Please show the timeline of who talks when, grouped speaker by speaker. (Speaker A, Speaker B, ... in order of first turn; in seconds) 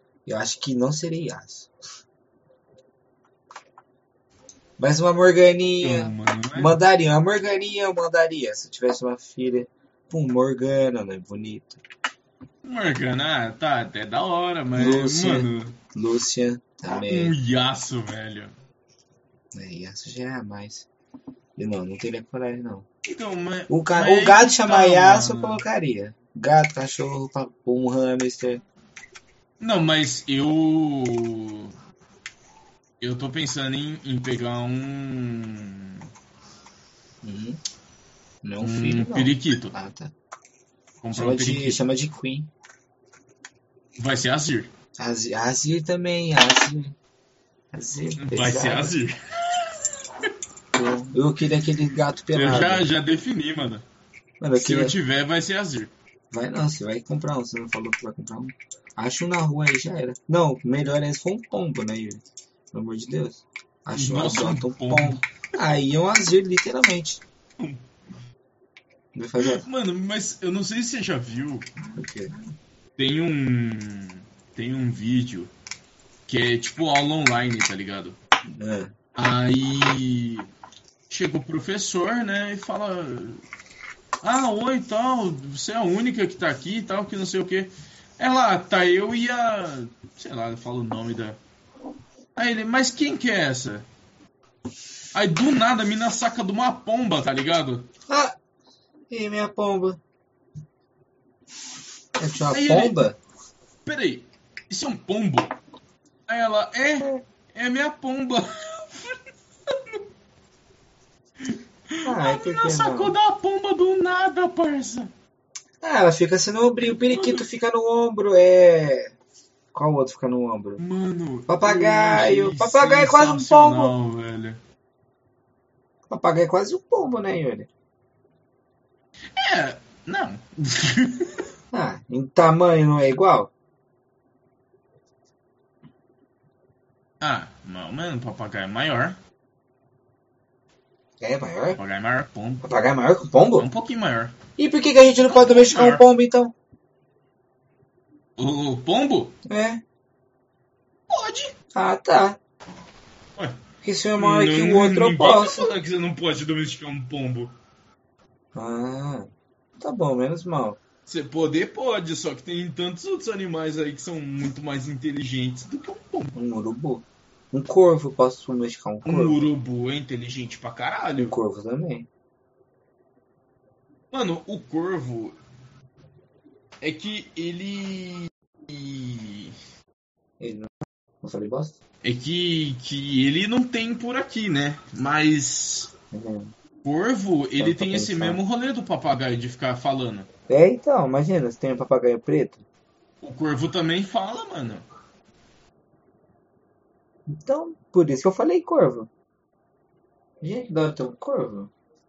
Speaker A: 0.3-1.7, 4.8-11.8, 14.8-17.4, 19.5-20.9, 21.6-22.9, 23.7-28.6, 37.2-37.6, 38.4-40.1, 41.1-42.5, 45.0-47.0, 47.7-49.0, 50.7-52.9, 54.4-55.0, 56.3-67.2, 69.2-69.7, 71.9-72.4, 78.5-78.9, 98.1-98.3, 99.1-100.0, 102.2-103.2, 112.0-113.2, 115.8-119.2, 119.7-120.8, 121.5-123.9, 126.1-127.7, 131.7-133.5, 141.2-141.8, 142.6-143.7, 144.6-146.5, 149.5-149.8, 151.7-152.4, 153.8-155.7, 158.6-160.8, 166.3-169.5, 171.2-172.1, 180.4-180.7, 181.2-181.8, 186.1-186.5, 187.6-188.4, 190.5-192.6, 197.3-199.1, 200.4-201.7
Speaker B: 5.8-6.7, 12.6-15.8, 16.9-18.5, 23.1-25.6, 29.6-31.7, 33.0-36.0, 38.6-39.7, 41.0-41.8, 44.0-44.7, 48.2-49.7, 52.3-53.9, 54.5-55.9, 64.0-65.2, 69.4-71.7, 73.0-75.5, 76.3-78.2, 79.2-80.5, 81.1-83.4, 84.2-91.4, 92.4-93.9, 95.1-97.9, 102.5-103.1, 103.8-105.5, 106.3-110.0, 111.9-115.1, 116.8-117.5, 120.8-124.6, 129.4-131.3, 137.2-139.2, 141.8-142.6, 143.6-144.4, 145.3-146.0, 148.4-149.3, 151.1-151.5, 154.2-157.5, 161.1-166.3, 169.1-171.3, 174.1-175.4, 176.8-179.6, 182.0-185.9, 186.8-190.3, 193.2-194.8